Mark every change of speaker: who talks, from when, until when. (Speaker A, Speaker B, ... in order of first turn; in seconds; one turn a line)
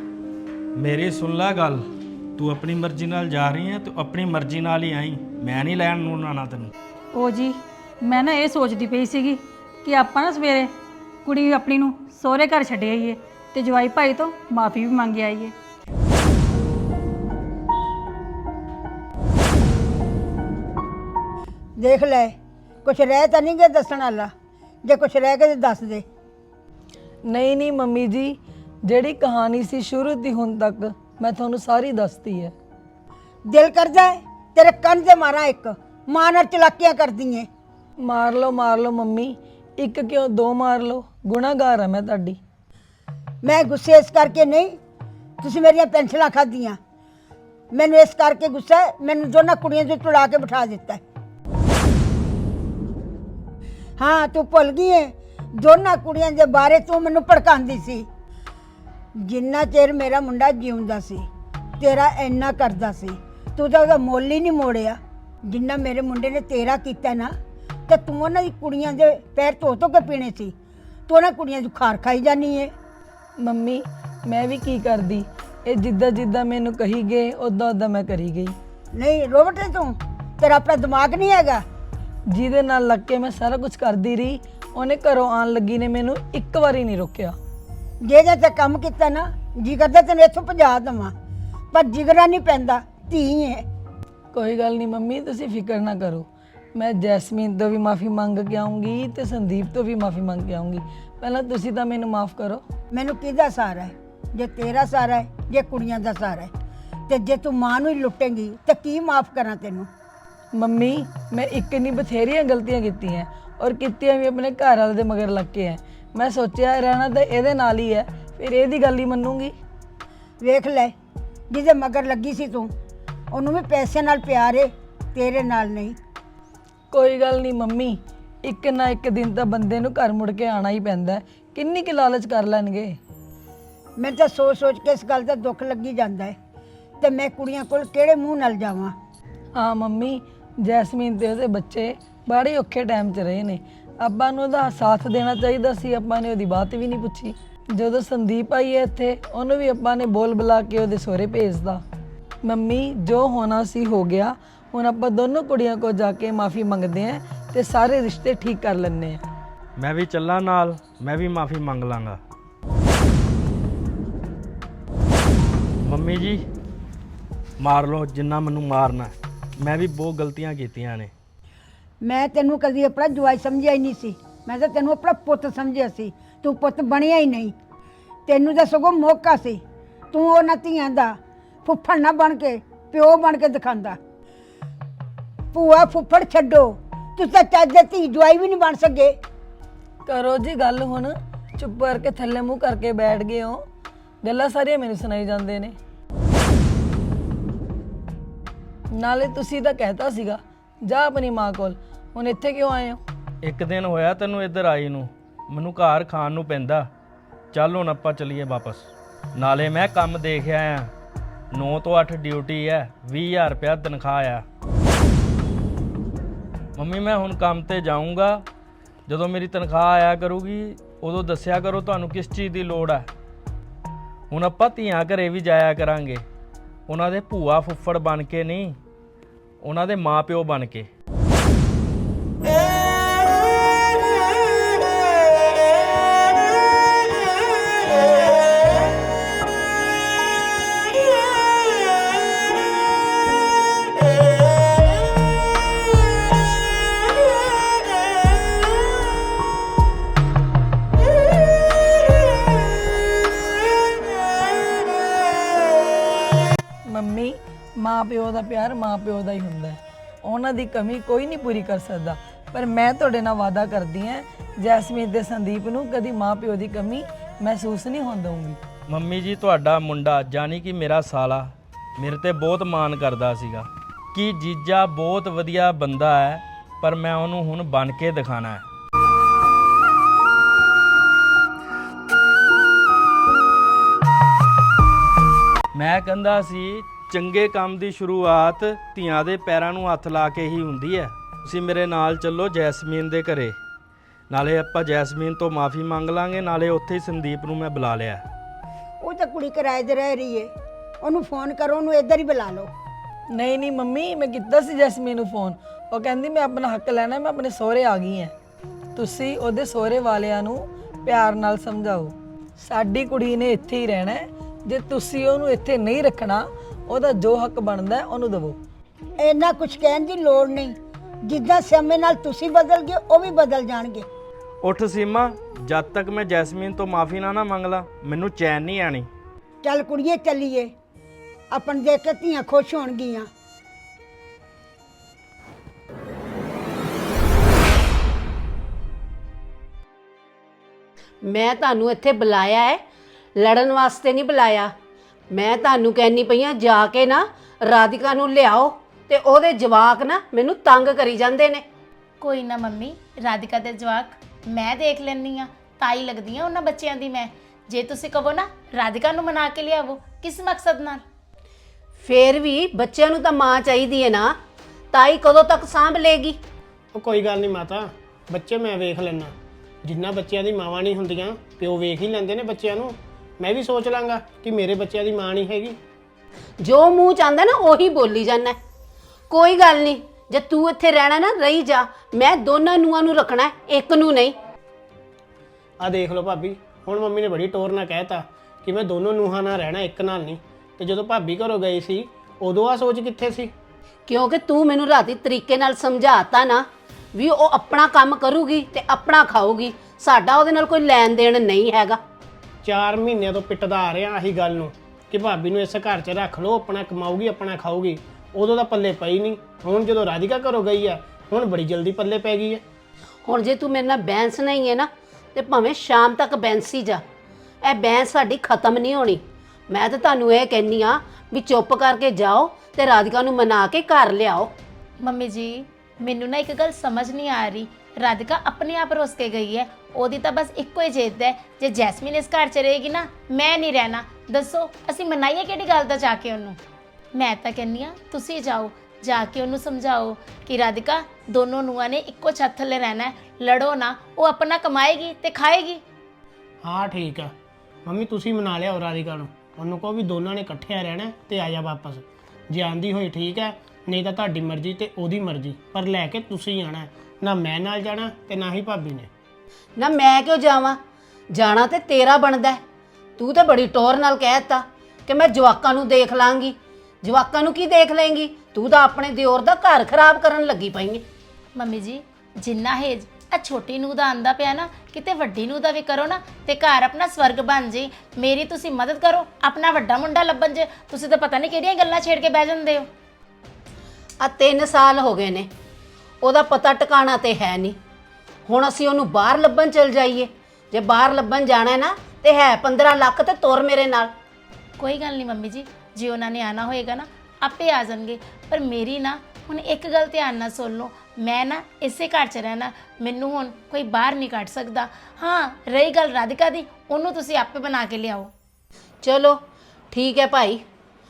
Speaker A: 0.8-1.8
Speaker A: 2.4-6.7
Speaker B: 7.1-10.7
Speaker B: 11.2-15.5
Speaker C: 21.8-24.3
Speaker C: 24.8-26.0
Speaker D: 27.3-32.5
Speaker C: 33.5-37.5
Speaker D: 38.0-42.4
Speaker C: 43.4-44.8
Speaker C: 45.4-46.8
Speaker C: 47.7-51.0
Speaker C: 54.0-58.1
Speaker C: 59.2-61.3
Speaker C: 61.8-67.3
Speaker C: 67.9-70.5
Speaker C: 71.1-72.7
Speaker D: 73.4-78.5
Speaker C: 78.9-81.6
Speaker D: 82.3-87.3
Speaker C: 88.0-91.1
Speaker C: 91.7-93.6
Speaker D: 94.3-102.6
Speaker C: 102.9-106.5
Speaker C: 107.1-109.9
Speaker D: 110.5-119.5
Speaker C: 120.4-120.9
Speaker C: 121.5-122.7
Speaker C: 123.3-126.0
Speaker D: 126.9-133.0
Speaker C: 134.0-136.4
Speaker C: 137.0-138.9
Speaker D: 139.5-151.8
Speaker D: 152.4-159.2
Speaker A: 159.8-162.2
Speaker A: 165.8-166.4
Speaker A: 167.6-171.1
Speaker C: 172.0-177.5
Speaker C: 178.3-184.0
Speaker C: 185.5-189.2
Speaker D: 190.1-193.6
Speaker D: 194.2-195.7
Speaker D: 198.9-203.0
Speaker A: 203.4-206.9
Speaker A: 207.5-210.9
Speaker A: 211.5-214.4
Speaker A: 216.8-218.4
Speaker A: 219.1-223.1
Speaker A: 224.3-226.2
Speaker A: 226.9-228.8
Speaker A: 229.6-230.9
Speaker D: 256.9-268.6
Speaker A: 268.9-278.6
Speaker A: 285.7-293.6
Speaker A: 294.3-298.2
Speaker C: 299.0-302.7
Speaker D: 303.3-308.3
Speaker D: 308.9-318.6
Speaker C: 319.2-324.1
Speaker A: 324.6-329.1
Speaker C: 329.6-330.7
Speaker C: 331.5-333.3
Speaker E: 341.2-342.8
Speaker E: 343.4-344.7
Speaker E: 345.3-351.6
Speaker F: 352.2-361.0
Speaker E: 362.0-364.4
Speaker E: 364.9-366.4
Speaker G: 366.9-369.3
Speaker G: 369.8-375.8
Speaker E: 376.6-378.6
Speaker E: 379.3-384.4
Speaker G: 385.8-393.5
Speaker E: 394.1-402.0
Speaker G: 402.6-412.6
Speaker E: 413.2-417.0
Speaker E: 417.6-424.5
Speaker F: 425.0-436.6
Speaker F: 437.1-445.8
Speaker G: 446.6-447.3
Speaker G: 447.8-459.1
Speaker E: 459.8-460.8
Speaker E: 461.3-462.6
Speaker E: 463.2-471.0
Speaker F: 471.6-482.9
Speaker E: 484.2-485.5
Speaker E: 486.2-487.8
Speaker E: 488.4-494.1
Speaker F: 494.8-508.3
Speaker E: 509.0-509.4
Speaker E: 509.9-510.6